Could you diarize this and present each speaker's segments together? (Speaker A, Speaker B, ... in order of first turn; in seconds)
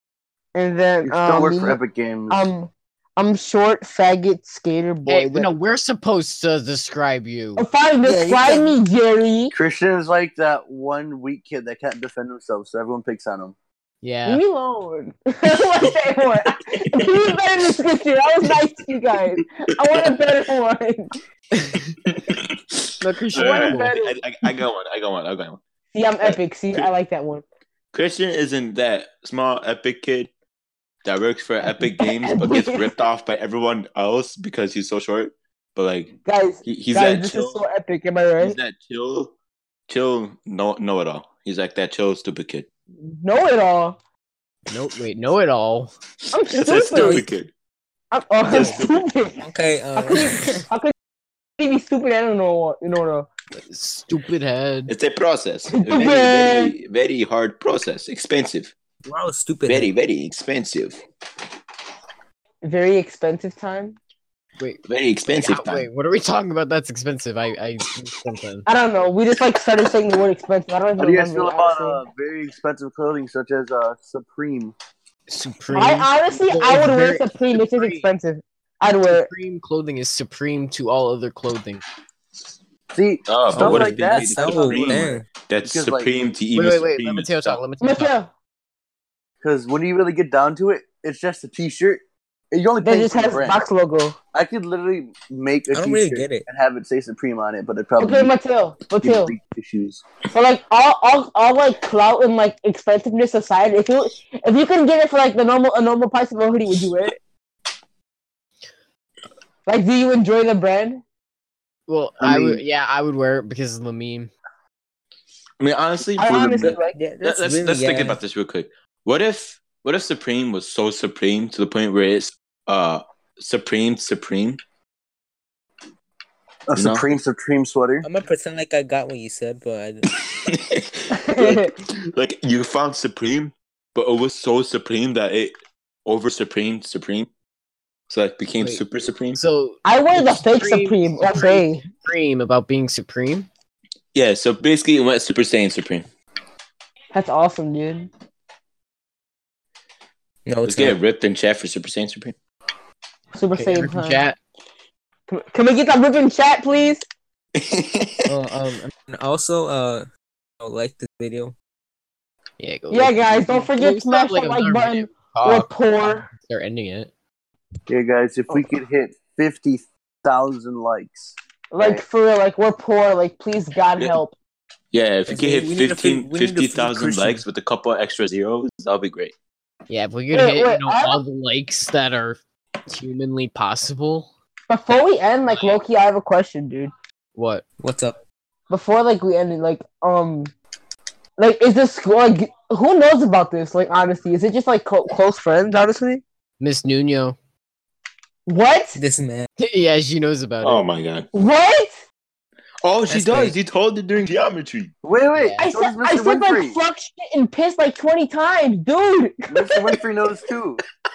Speaker A: 0.5-5.5, 7.6-9.5, 14.2-21.1, 23.4-24.2, 25.9-27.4, 32.0-32.9, 36.2-38.5, 43.0-44.0, 46.3-47.2, 48.1-49.4, 50.0-50.9, 51.6-53.3, 55.7-56.7, 62.6-64.0, 68.7-72.0, 75.7-79.3, 87.8-88.3, 92.8-94.2, 98.0-99.3, 100.3-107.2, 109.7-111.0, 116.2-117.0, 131.1-131.7, 139.8-141.9, 147.1-148.1, 153.3-154.3, 155.3-157.0, 162.9-166.3, 171.7-174.3, 180.3-181.2, 184.7-186.9, 188.7-190.5, 191.4-196.2, 198.5-199.0, 201.3-202.0, 205.6-209.7
Speaker B: 1.0-2.4, 9.5-13.5, 71.0-74.7, 82.9-86.1, 89.4-93.6, 94.3-98.3, 99.0-100.0, 112.2-112.6, 126.7-128.1, 167.9-172.0, 205.0-206.8, 209.5-210.8
Speaker C: 5.0-7.7, 14.0-14.4, 23.0-24.0, 44.7-45.9, 53.5-54.9, 64.6-68.6, 75.3-78.1, 79.1-81.8, 86.5-88.1, 111.9-114.3, 139.3-143.5, 153.6-154.4, 162.6-167.1, 179.9-184.3, 187.3-187.6, 196.6-197.4, 199.6-200.9, 205.3-205.7
Speaker D: 22.0-25.6, 26.2-26.9, 27.9-30.3, 31.0-36.1, 36.6-37.6, 38.4-39.3, 39.9-42.7, 46.3-47.5, 48.4-49.0, 54.9-58.7, 59.6-61.0, 64.9-65.9, 83.3-87.6, 115.6-124.6, 126.7-127.0, 130.1-135.5, 136.1-137.3, 138.1-139.4, 144.1-146.1, 150.6-152.3, 157.6-158.3, 174.9-179.3, 200.6-201.3, 202.8-204.9
Speaker E: 46.9-47.3, 48.5-48.8, 49.4-50.7, 59.0-59.9, 83.5-85.3, 95.7-96.4, 116.6-118.2, 128.0-130.1, 150.4-151.0, 158.2-160.1, 160.6-161.5, 175.3-177.4, 187.8-188.2, 198.9-199.5, 203.1-203.6